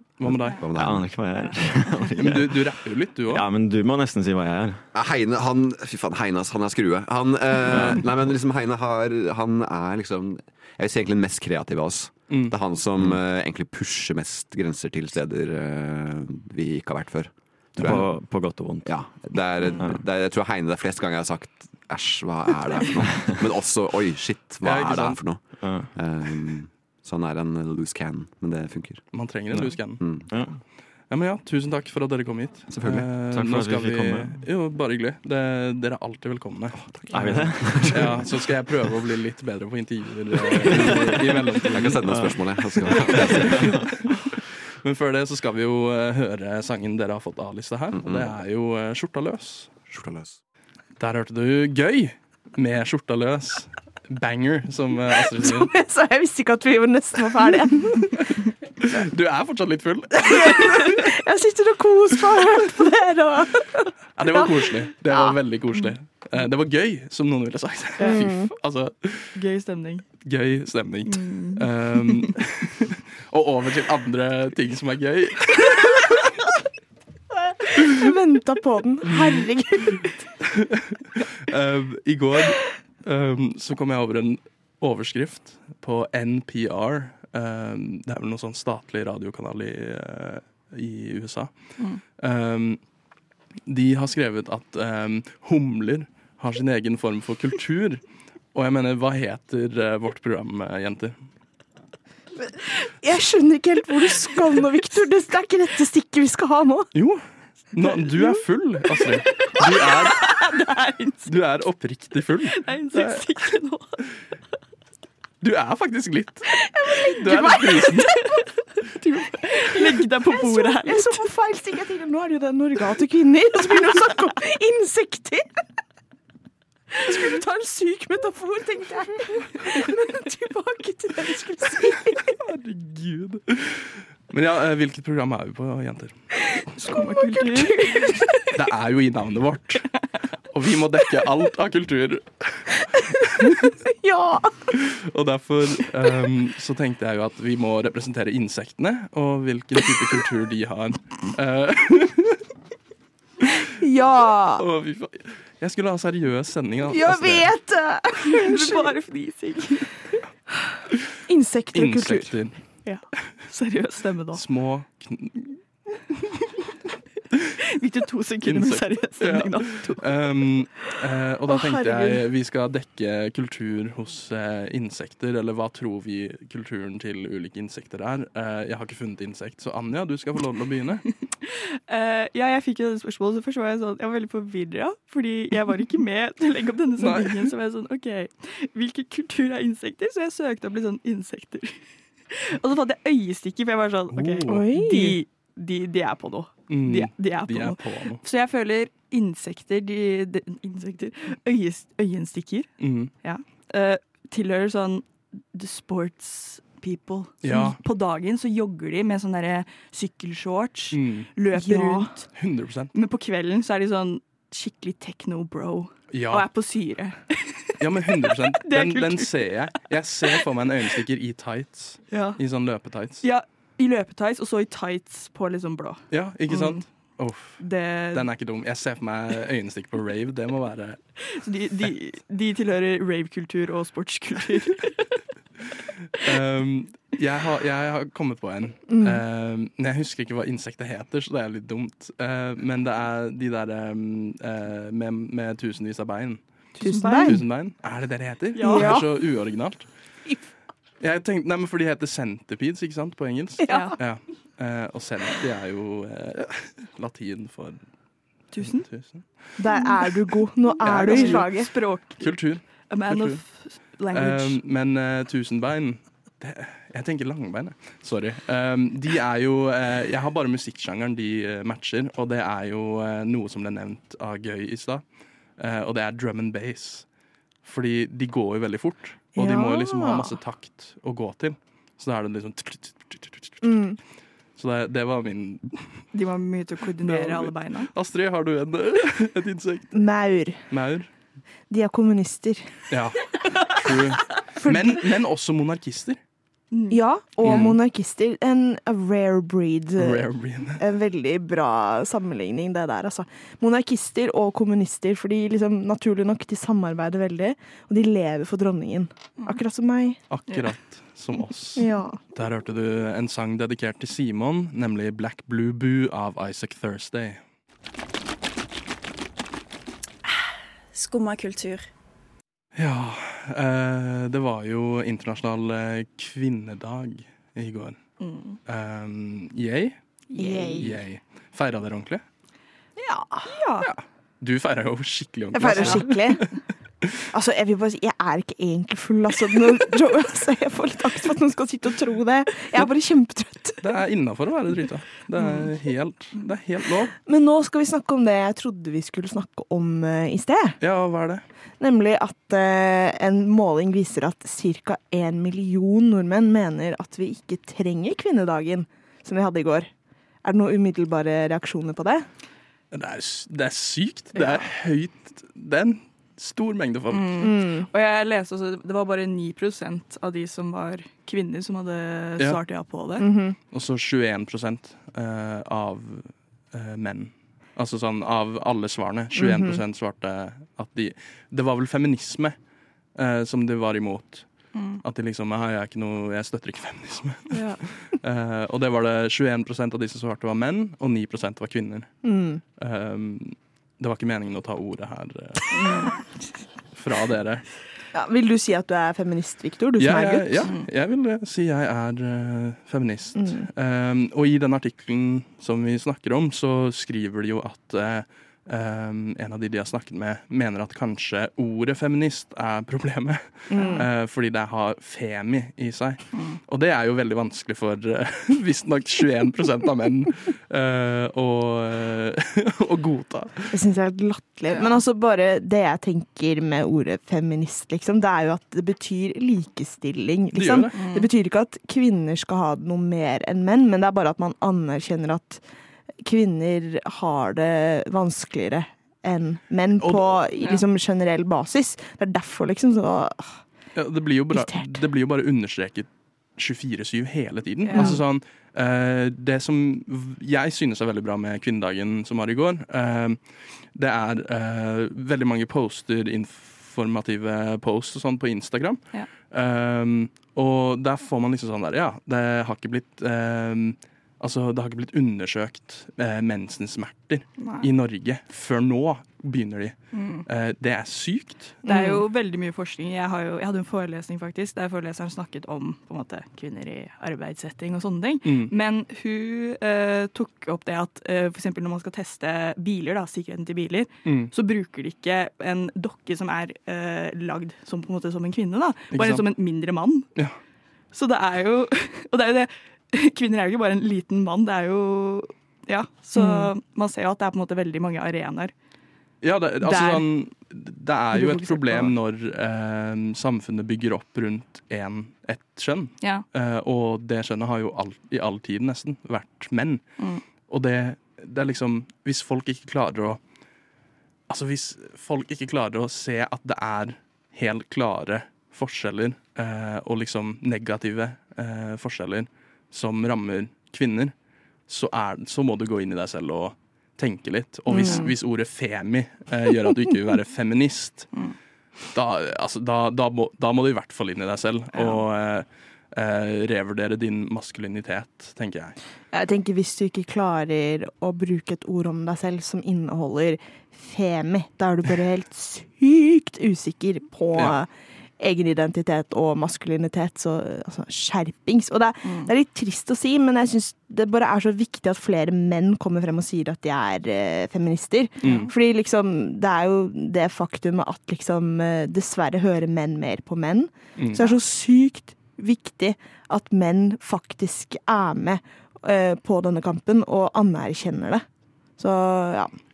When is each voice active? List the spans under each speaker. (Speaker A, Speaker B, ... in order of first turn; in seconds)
Speaker A: 0.2-0.7, 2.2-3.5, 12.3-12.6, 24.6-25.4, 29.1-30.2, 31.1-42.0, 42.9-49.7, 51.0-55.7, 58.8-61.1, 64.2-69.3, 70.2-76.0, 79.1-79.4, 80.5-92.8, 93.7-98.0, 98.5-101.2, 106.9-110.3, 111.3-113.3, 115.4-116.6, 117.2-118.1, 132.3-136.2, 138.5-139.9, 140.5-142.9, 143.4-143.7, 144.7-152.4, 154.6-157.5, 161.7-162.6, 164.3-165.6, 168.5-181.1, 187.0-187.5, 194.1-194.7, 196.7-198.2, 202.8-203.1, 207.4-207.8, 210.9-211.3, 212.3-212.9, 216.1-216.5, 217.8-223.2, 226.1-231.0, 236.2-249.9, 251.0-257.8, 258.6-259.3, 260.8-275.0, 275.6-277.1, 277.6-283.6, 284.6-286.1, 287.0-290.0, 290.7-291.1, 292.9-296.2, 297.4-297.8, 300.0-300.8, 310.3-317.4, 322.8-328.0, 328.6-330.0, 330.7-332.2, 333.8-336.5, 343.8-347.1, 350.8-351.4, 362.9-367.5, 373.7-382.6, 383.1-392.2, 392.8-395.9, 397.0-397.7, 400.0-423.7, 430.5-430.9, 440.0-440.4, 443.9-471.8, 478.4-478.7, 484.2-484.5, 489.1-489.5, 499.4-513.4, 514.5-524.3, 524.9-531.3, 532.1-539.0, 558.4-558.7, 564.2-564.5
Speaker B: 0.2-1.4, 4.9-29.1, 30.0-30.3, 32.7-33.1, 36.8-38.3, 41.7-43.9, 47.9-48.4, 49.9-50.4
Speaker C: 0.7-2.8, 3.3-4.8, 7.7-8.0, 17.8-20.0, 25.6-26.0, 29.5-30.6, 33.3-34.4, 37.1-38.2, 41.9-42.4, 43.4-43.8
Speaker D: 1.4-2.1, 68.0-68.2, 69.3-70.1, 71.1-72.4, 109.4-111.3, 112.6-114.0, 119.3-121.3, 136.8-138.5, 158.3-160.0, 162.8-164.4, 167.8-170.6, 181.4-212.3, 212.9-217.8, 218.6-219.5, 222.1-222.4, 223.2-226.8, 227.6-228.3, 231.2-235.2, 246.8-247.4, 248.5-249.0, 253.7-254.0, 258.5-258.9, 260.8-264.6, 286.1-287.9, 296.7-297.7, 321.1-321.8, 328.2-328.6, 330.3-330.8, 333.5-333.9, 335.8-336.0, 367.1-373.3, 384.7-385.0, 387.5-387.8, 395.8-396.1, 413.7-414.1, 416.3-416.6, 424.7-425.0, 430.9-431.3, 440.6-440.9, 447.9-448.2, 467.6-467.9, 470.1-470.5, 471.9-490.3, 491.1-498.7, 499.8-500.2, 528.0-528.3, 552.2-552.5, 558.4-558.7
Speaker E: 55.2-58.5, 60.2-64.6, 65.1-65.4, 68.0-68.5, 77.4-80.3, 102.4-106.9, 116.6-118.1, 119.0-125.5, 127.0-132.3, 136.6-138.3, 143.0-144.7, 153.6-154.7, 156.9-158.9, 161.3-162.4, 171.5-172.2, 194.5-195.2, 211.5-212.1, 238.9-239.2, 246.8-247.4, 248.6-249.1, 253.6-254.0, 259.6-261.7, 279.4-280.4, 283.6-284.0, 289.9-290.6, 291.7-292.7, 294.6-295.1, 296.9-310.2, 311.8-312.2, 330.4-331.0, 333.0-333.5, 335.5-336.6, 337.3-343.9, 347.2-350.8, 351.8-359.9, 360.4-362.3, 367.4-367.9, 373.2-373.6, 379.4-379.8, 392.2-392.6, 398.1-400.7, 403.4-403.7, 413.7-414.1, 423.7-435.6, 436.2-443.6, 444.5-445.0, 447.9-448.2, 471.9-472.2, 496.4-496.7, 501.4-502.1, 527.9-528.3, 539.3-571.4, 572.0-572.7